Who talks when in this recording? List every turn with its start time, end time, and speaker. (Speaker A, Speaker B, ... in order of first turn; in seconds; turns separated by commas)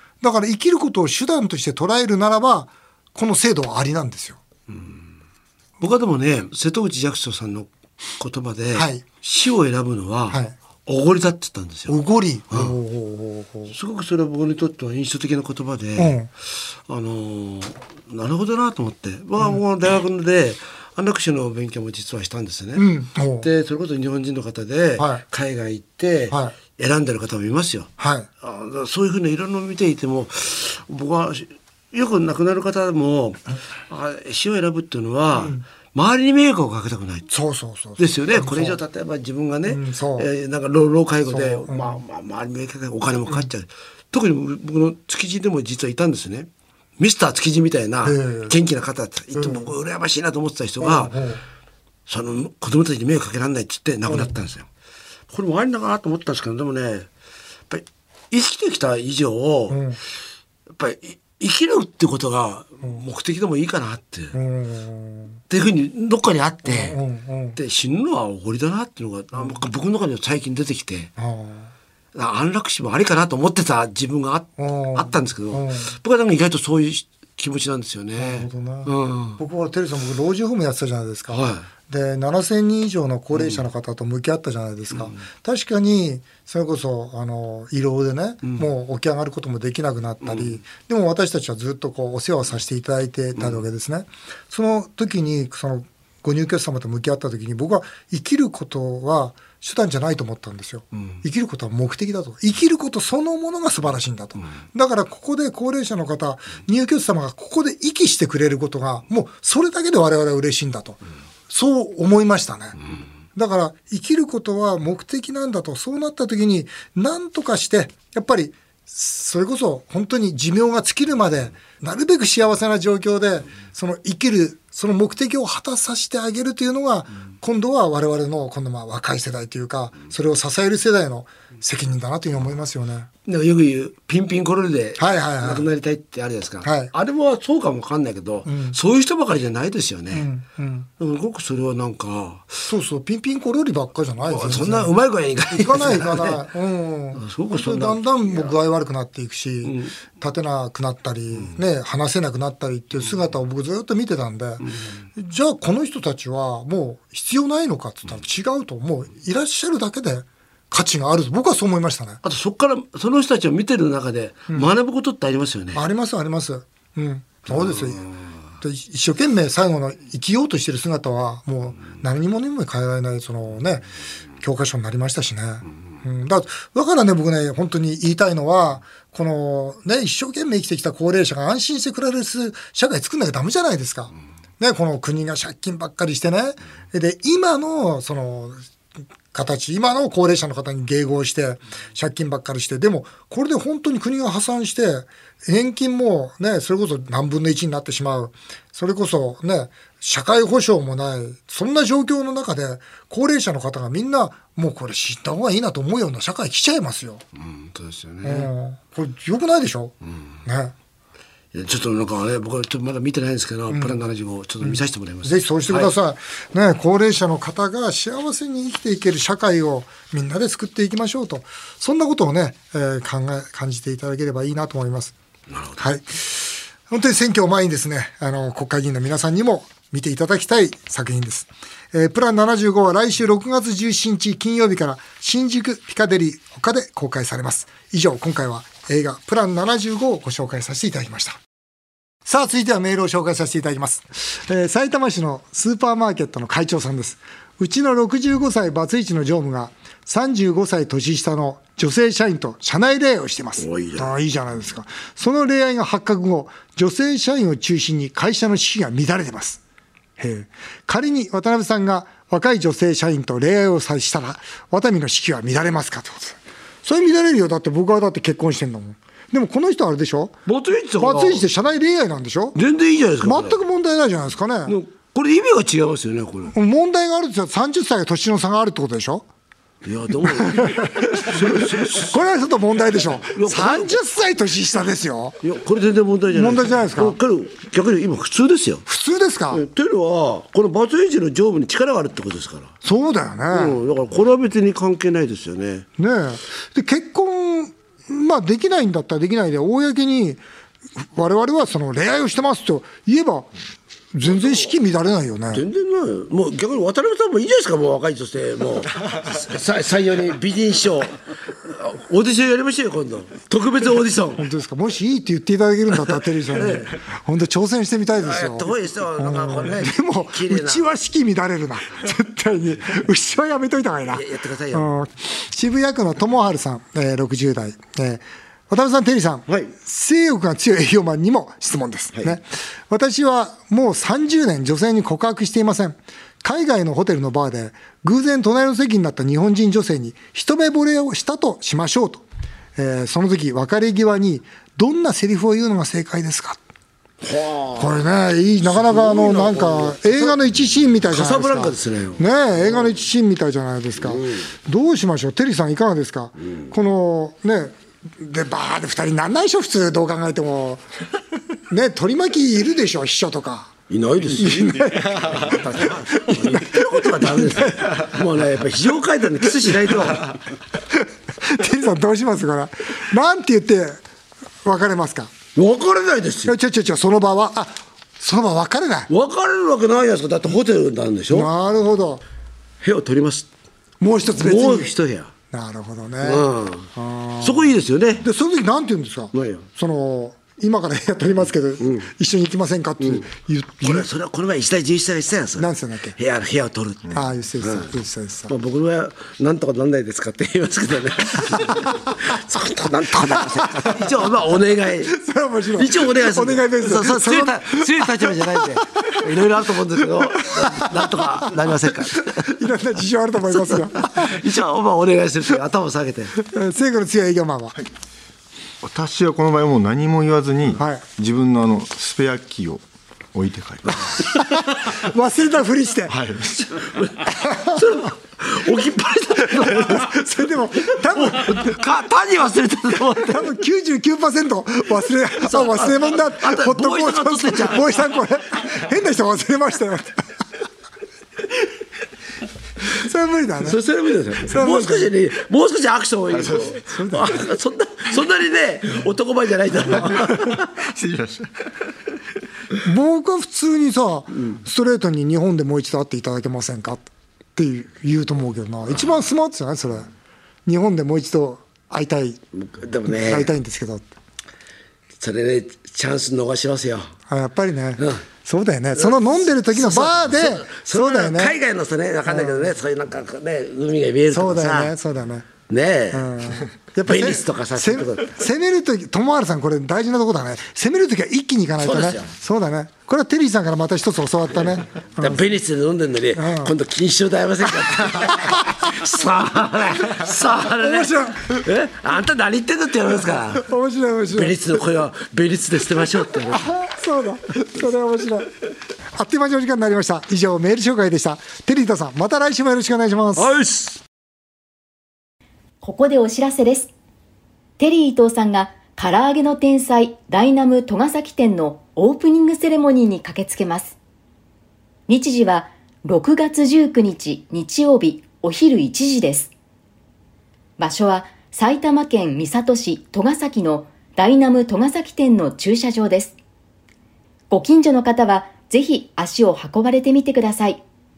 Speaker A: 0.2-4.4, Speaker B: 4.7-5.0, Speaker B: 5.8-12.0, Speaker A: 8.7-9.0, Speaker A: 11.9-13.7, Speaker B: 12.5-12.8, Speaker B: 13.7-16.1, Speaker A: 16.0-16.3, Speaker B: 16.9-22.9, Speaker A: 22.8-23.5, Speaker B: 23.4-27.9, Speaker A: 25.0-25.2, Speaker A: 28.0-28.3, Speaker B: 28.4-37.3, Speaker A: 35.3-35.6, Speaker A: 37.3-38.8, Speaker B: 38.0-51.1, Speaker A: 39.7-40.3, Speaker A: 41.3-42.0, Speaker A: 48.0-48.5, Speaker A: 49.3-49.7, Speaker A: 50.8-51.4, Speaker B: 52.1-54.7, Speaker B: 55.3-57.1, Speaker B: 57.7-59.8, Speaker A: 59.7-60.0, Speaker B: 60.8-64.3, Speaker A: 64.3-65.4, Speaker B: 65.5-67.0, Speaker A: 66.6-67.6, Speaker B: 67.5-71.1, Speaker A: 71.2-71.7, Speaker B: 72.1-79.4, Speaker A: 74.6-75.9, Speaker A: 78.2-112.8, Speaker B: 81.3-81.7, Speaker B: 83.3-83.6, Speaker B: 90.2-90.5, Speaker B: 100.9-101.2, Speaker A: 113.3-133.1, Speaker B: 133.2-140.3, Speaker A: 135.0-135.7, Speaker A: 136.6-136.9, Speaker A: 138.4-138.8, Speaker A: 140.1-140.9, Speaker B: 141.0-142.7, Speaker A: 142.7-144.9, Speaker B: 144.2-146.4, Speaker A: 145.6-154.6, Speaker B: 147.2-148.5, Speaker B: 149.6-149.9, Speaker B: 154.6-154.9, Speaker A: 155.2-162.2, Speaker B: 162.2-165.8, Speaker A: 165.7-168.0, Speaker B: 167.5-168.1, Speaker A: 168.6-173.9, Speaker A: 174.4-188.6, Speaker A: 189.3-207.2, Speaker B: 207.3-208.5, Speaker A: 208.2-209.9, Speaker A: 210.4-210.7, Speaker B: 211.5-215.9, Speaker A: 213.7-214.0, Speaker A: 214.6-225.1, Speaker B: 225.5-225.8, Speaker A: 225.8-241.4, Speaker A: 242.2-259.6, Speaker B: 253.6-254.1, Speaker A: 260.2-270.3, Speaker B: 270.4-271.4, Speaker A: 271.0-272.6, Speaker B: 272.5-273.6, Speaker A: 273.2-274.8, Speaker B: 274.7-276.5, Speaker A: 276.5-279.2, Speaker B: 279.8-282.2, Speaker A: 280.2-285.4, Speaker B: 283.3-284.0, Speaker B: 285.4-288.8, Speaker A: 286.3-287.1, Speaker A: 288.9-289.6, Speaker B: 289.5-292.7, Speaker A: 292.8-293.8, Speaker B: 293.5-295.9, Speaker A: 296.0-300.4, Speaker A: 301.0-303.5, Speaker A: 304.1-305.6, Speaker B: 305.5-314.4, Speaker A: 314.4-342.2, Speaker B: 316.5-316.9, Speaker B: 318.2-320.9, Speaker B: 324.1-324.9, Speaker A: 342.8-346.6, Speaker B: 347.2-348.0, Speaker A: 347.8-360.8, Speaker B: 348.6-350.4, Speaker B: 351.1-353.0, Speaker B: 354.1-354.4, Speaker A: 361.7-363.7, Speaker B: 363.9-370.4, Speaker A: 364.4-368.1, Speaker A: 371.4-374.0, Speaker A: 374.6-375.3, Speaker B: 375.5-376.5, Speaker A: 376.5-379.1, Speaker B: 379.1-381.5, Speaker A: 381.3-382.2, Speaker B: 382.8-383.5, Speaker A: 384.0-384.9, Speaker B: 384.4-385.3, Speaker A: 385.5-394.1, Speaker B: 386.2-386.9, Speaker B: 387.4-388.2, Speaker B: 389.3-389.6, Speaker B: 391.8-392.1, Speaker B: 393.0-393.2, Speaker B: 393.8-397.9, Speaker A: 395.6-396.2, Speaker A: 397.1-398.5, Speaker B: 398.5-405.1, Speaker A: 401.5-401.9, Speaker A: 403.6-404.1, Speaker A: 405.1-409.2, Speaker B: 405.7-412.6, Speaker A: 410.3-414.4, Speaker B: 413.5-416.3, Speaker A: 416.4-417.8, Speaker C: 418.8-424.2, Speaker A: 420.8-421.0, Speaker A: 424.3-426.2, Speaker C: 426.1-426.8, Speaker B: 426.7-430.2, Speaker A: 427.3-428.1, Speaker A: 429.4-431.8, Speaker B: 430.9-433.5, Speaker A: 433.3-440.2, Speaker B: 435.4-438.0, Speaker A: 442.9-443.8, Speaker B: 443.6-450.7, Speaker A: 444.4-445.1, Speaker A: 446.9-447.3, Speaker C: 450.8-451.5, Speaker A: 452.8-460.1, Speaker A: 460.6-462.4, Speaker B: 462.5-463.5, Speaker A: 463.1-464.1, Speaker B: 465.2-467.1, Speaker A: 467.3-471.6, Speaker B: 468.9-474.9, Speaker A: 472.3-472.7, Speaker A: 474.3-475.5, Speaker B: 475.7-478.3, Speaker A: 476.1-485.4, Speaker B: 481.8-482.3, Speaker B: 485.2-493.7, Speaker A: 486.3-486.7, Speaker A: 488.2-489.1, Speaker A: 490.1-491.6, Speaker A: 493.6-494.6, Speaker B: 494.3-496.7, Speaker A: 496.5-498.5, Speaker A: 499.1-503.5, Speaker B: 503.4-504.0, Speaker D: 505.8-506.9, Speaker D: 507.8-513.9, Speaker D: 515.1-519.5, Speaker D: 520.8-526.4, Speaker D: 527.5-530.8